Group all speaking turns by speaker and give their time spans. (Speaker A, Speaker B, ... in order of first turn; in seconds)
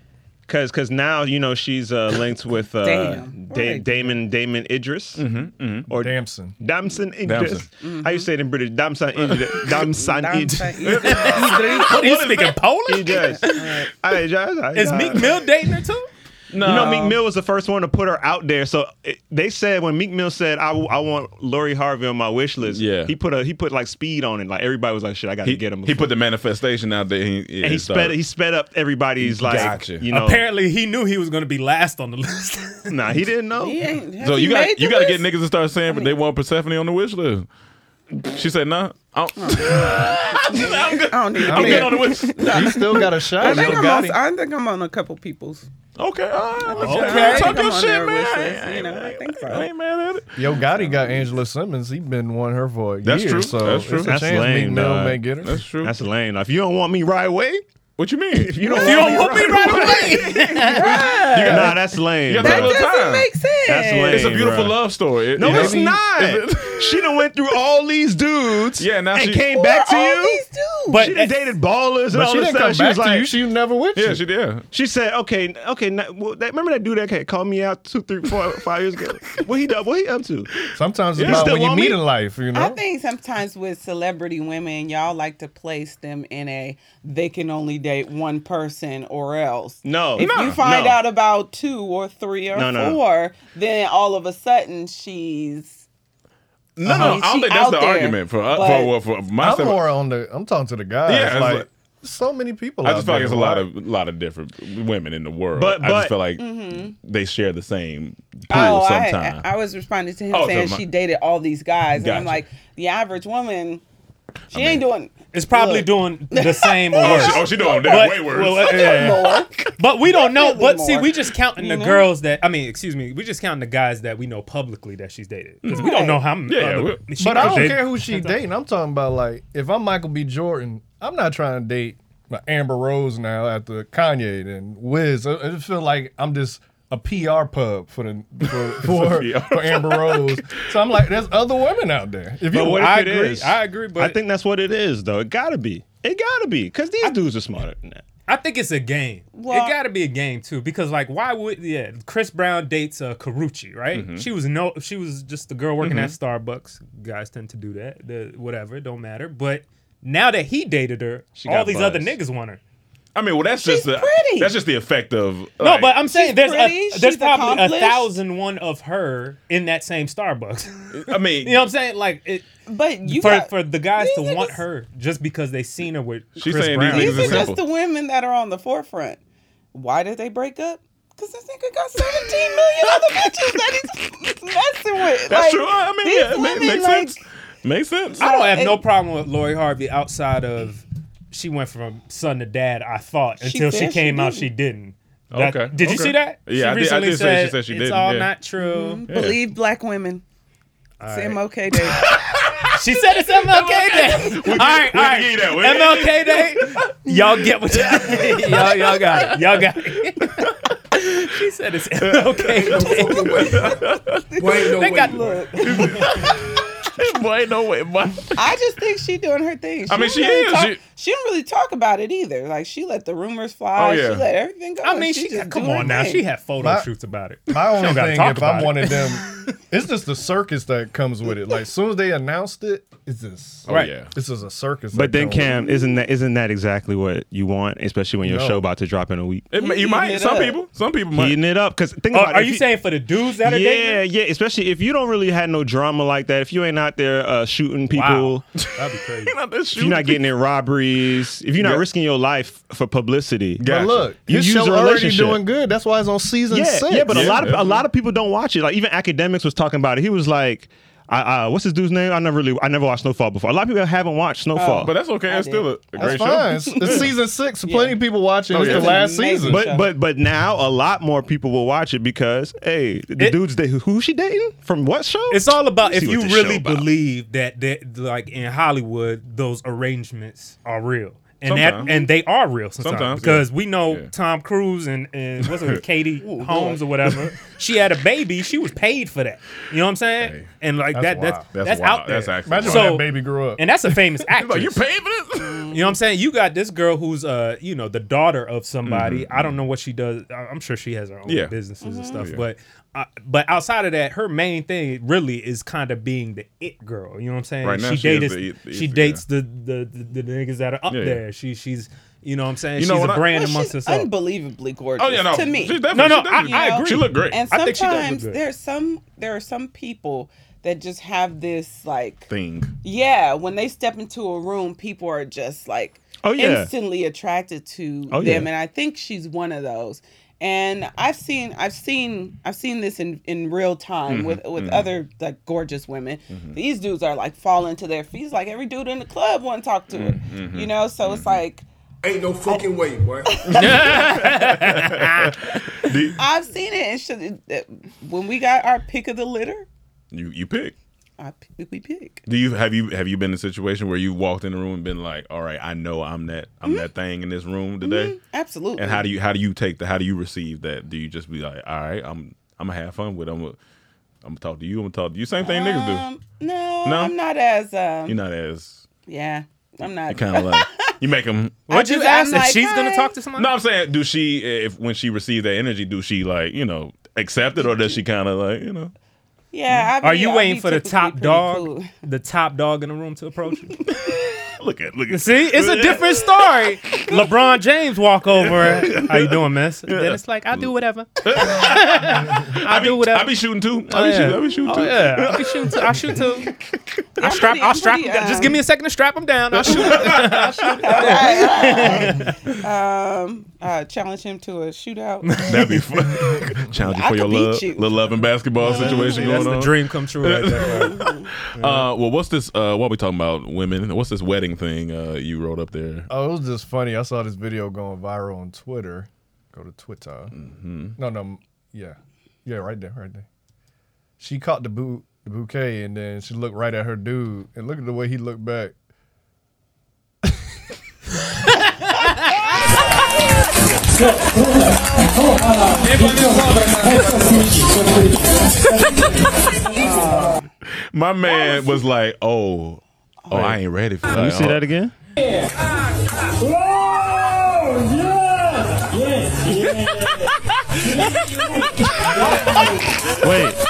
Speaker A: 0.5-5.2, 5.9-10.8, 12.9-15.5, 16.6-26.1, 27.6-30.4, 32.9-33.8, 54.0-55.2, 55.8-57.6, 58.3-60.1, 61.5-62.9, 63.6-64.8, 65.3-73.3, 74.7-80.5, 81.2-82.0, 89.8-90.3, 92.5-93.0, 105.5-106.2, 142.5-148.0, 161.3-162.1, 234.9-239.4, 241.1-242.8, 243.4-248.4, 249.7-253.6, 254.2-255.4, 256.5-264.9, 269.4-276.9, 326.2-326.7, 328.1-328.5, 444.1-444.9, 453.2-453.6
Speaker B: 2.8-4.1, 7.8-8.3, 9.7-11.9, 13.4-13.9, 33.6-35.2, 39.4-45.7, 46.6-49.6, 59.6-61.8, 62.4-64.3, 69.5-71.1, 82.5-95.8, 96.8-98.9, 106.4-107.0, 108.5-113.8, 114.5-119.5, 120.0-122.1, 125.7-126.2, 149.3-149.8, 163.6-164.5, 166.1-168.1, 172.7-174.6, 176.9-179.2, 179.7-187.2, 188.2-188.8, 193.4-194.5, 198.6-200.2, 201.1-202.1, 214.3-216.0, 218.3-226.2, 239.6-240.6, 264.5-267.1, 267.6-269.9, 281.8-282.1, 286.2-286.8, 295.4-295.9, 301.8-302.2, 313.3-322.3, 322.8-341.6, 343.3-344.0, 346.2-349.7, 351.2-352.2, 357.8-359.0, 365.4-368.2, 369.1-370.9, 371.7-373.1, 377.6-378.0, 379.5-381.9, 397.2-398.6, 399.7-405.3, 406.8-407.9, 408.8-409.4, 410.6-411.3, 439.7-440.5, 441.4-441.7, 443.2-443.6
Speaker C: 5.2-5.9, 7.2-7.7, 9.2-9.7, 10.8-12.6, 16.5-17.2, 22.6-23.1, 25.4-28.2, 29.2-30.0, 34.2-37.5, 38.1-42.9, 43.4-43.8, 46.0-51.3, 53.0-54.2, 55.4-56.0, 58.0-60.2, 60.8-63.3, 64.1-67.3, 68.8-69.4, 73.9-74.7, 81.2-81.5, 90.2-91.0, 96.8-99.8, 101.1-101.7, 102.8-109.4, 110.3-110.8, 112.0-112.4, 114.5-114.8, 117.0-119.7, 125.6-127.8, 138.7-140.6, 153.9-154.3, 155.8-156.1, 163.1-166.0, 170.9-171.6, 176.4-177.6, 183.2-183.6, 185.3-188.2, 195.3-198.3, 199.1-199.4, 201.9-202.7, 203.5-209.7, 212.0-214.2, 215.6-218.5, 219.9-220.8, 223.8-224.2, 233.7-234.1, 239.5-241.4, 249.2-250.2, 251.6-251.8, 253.6-254.0, 257.1-257.8, 264.8-267.1, 268.5-269.0, 281.4-281.9, 282.8-284.1, 285.5-285.8, 290.2-290.5, 291.5-293.1, 294.4-295.7, 298.8-299.6, 301.2-301.5, 302.1-302.4, 307.6-309.2, 310.9-311.2, 312.8-313.3, 315.0-317.4, 322.3-322.7, 334.1-334.9, 336.3-336.6, 339.9-341.4, 343.4-346.2, 350.1-350.7, 352.3-358.1, 358.8-363.6, 364.2-366.1, 366.8-367.1, 368.1-368.8, 370.1-371.6, 373.4-378.9, 383.9-387.3, 388.3-390.7, 391.2-397.2, 399.5-401.3, 405.5-416.1, 420.3-421.0, 440.9-444.6, 449.4-453.2
Speaker D: 6.0-6.5, 41.5-44.2, 50.4-55.6, 65.4-66.0, 72.1-74.2, 80.7-82.8, 96.8-97.2, 99.4-103.7, 127.2-142.9, 226.6-226.9, 227.5-235.6, 238.2-238.6, 253.6-257.4, 266.0-269.6, 290.9-291.5, 292.4-293.6, 416.1-420.3, 421.0-423.2, 424.2-428.7
Speaker E: 10.9-13.7, 14.7-16.1, 30.1-32.9, 46.7-47.5, 58.6-61.0, 70.9-71.5, 115.3-128.4, 142.6-144.2, 148.2-162.6, 165.6-172.4, 173.0-177.5, 188.2-199.1, 201.0-201.4, 202.7-213.6, 214.6-216.2, 224.8-229.1, 233.7-233.9, 242.1-244.0, 247.9-249.3, 275.3-294.8, 295.7-314.1, 315.9-318.4, 343.5-345.4, 371.7-373.5, 379.7-383.8, 385.1-393.3, 393.9-396.5, 397.2-402.5, 405.2-405.8, 408.6-411.0, 432.0-432.3, 435.9-436.6
Speaker F: 212.7-213.7, 214.4-215.4, 342.0-343.4